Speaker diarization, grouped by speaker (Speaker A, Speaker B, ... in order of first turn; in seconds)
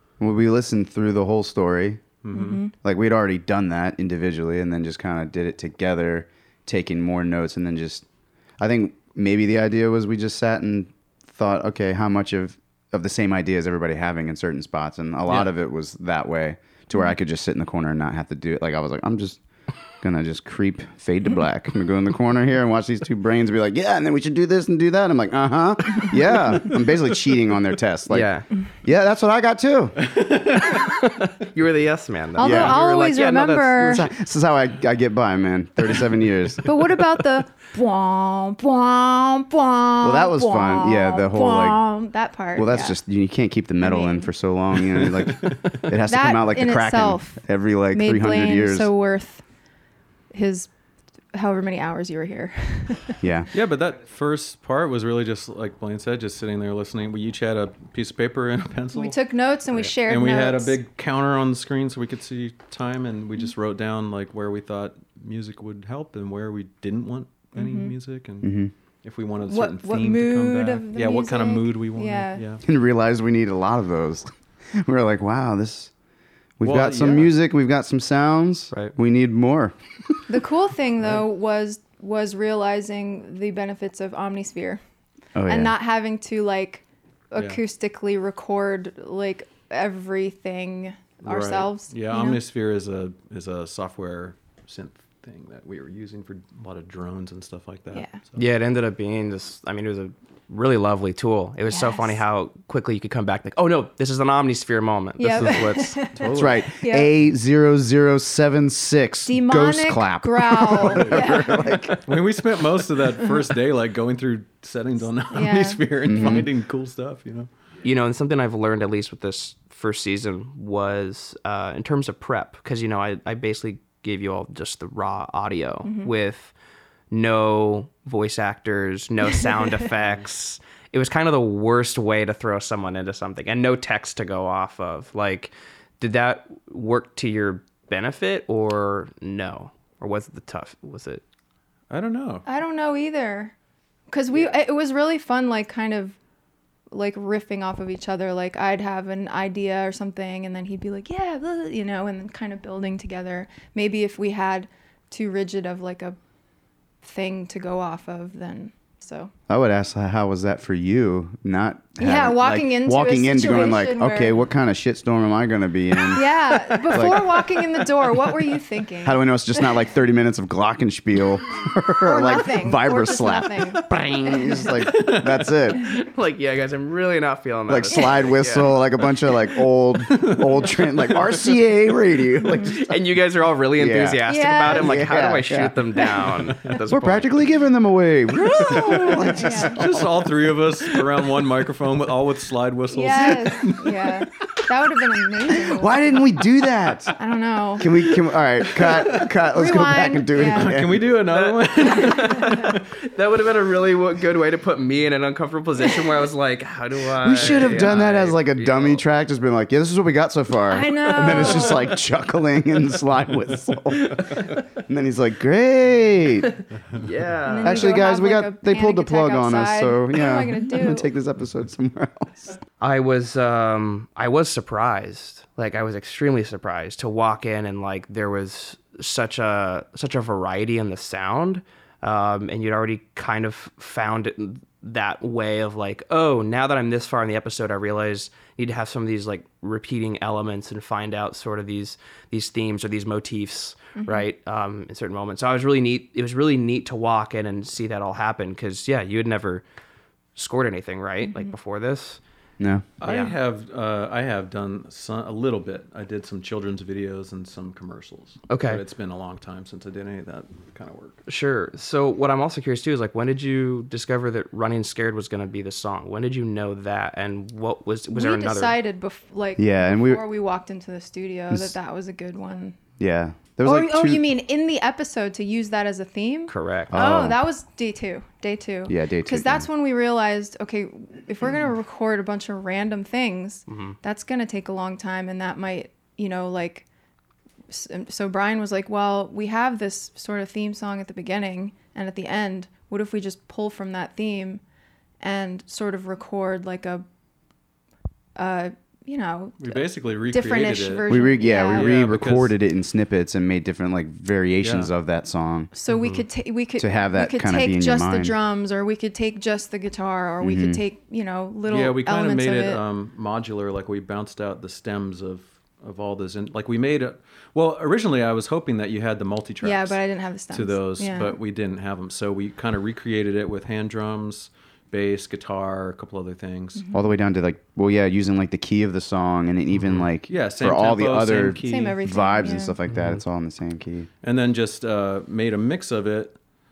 Speaker A: 0.2-2.1, 2.8-8.1, 8.6-19.4, 20.0-30.0, 32.4-32.8, 33.9-36.7, 40.0-41.8, 42.5-48.9, 53.2-53.5, 68.4-68.7, 72.6-75.9, 76.6-79.8, 85.3-85.8, 106.3-112.2, 116.0-116.5, 159.5-167.6, 169.0-175.8, 177.7-183.0, 183.8-185.8, 186.9-190.7, 195.8-197.1, 197.8-201.2, 207.2-216.5, 217.6-222.5, 252.6-252.8, 269.6-270.2, 273.0-274.3, 276.9-277.4, 278.9-279.7, 301.1-305.7, 306.8-308.4, 310.4-310.8, 326.9-334.1
Speaker B: 2.2-2.6, 30.1-30.7, 45.4-45.8, 53.5-68.5, 69.0-72.6, 76.6-77.3, 91.2-98.5, 106.2-106.5, 110.9-117.5, 141.9-142.4, 174.9-175.4, 180.1-181.5, 189.0-194.2, 200.4-202.7, 207.7-207.9, 253.0-261.2, 299.6-302.5, 304.6-304.9, 305.9-306.2, 311.7-326.9, 329.7-332.5, 334.2-336.4
Speaker C: 2.3-2.7, 32.3-34.1, 36.6-43.0, 43.8-44.3, 46.0-49.5, 50.3-50.7, 51.3-53.1, 58.9-60.8, 67.5-68.0, 69.4-72.5, 80.3-84.8, 85.5-92.4, 97.9-98.2, 101.7-102.2, 105.2-107.1, 109.2-111.9, 115.3-116.0, 125.8-126.1, 142.4-143.5, 144.1-146.2, 146.9-156.2, 157.0-159.3, 162.0-164.4, 166.1-169.8, 172.0-174.8, 177.9-178.2, 182.4-182.8, 184.2-185.3, 188.4-189.8, 192.9-196.2, 197.2-197.9, 198.9-200.8, 201.9-202.6, 210.7-211.9, 217.4-221.1, 243.9-244.3, 251.2-251.5, 268.1-272.8, 273.6-286.9, 287.7-294.6, 295.2-297.0, 298.4-301.9, 305.7-312.8, 319.6-321.4, 326.7-327.1, 331.5-332.8
Speaker D: 28.1-28.6, 30.8-34.1, 98.4-106.2, 117.8-126.5, 127.1-141.2, 173.9-174.7, 175.8-178.8, 182.7-187.4, 201.3-209.0, 217.0-218.0, 222.8-249.6, 250.3-252.2, 253.0-253.3, 258.5-258.8, 261.3-268.8, 276.5-276.9, 283.7-283.9, 332.9-333.2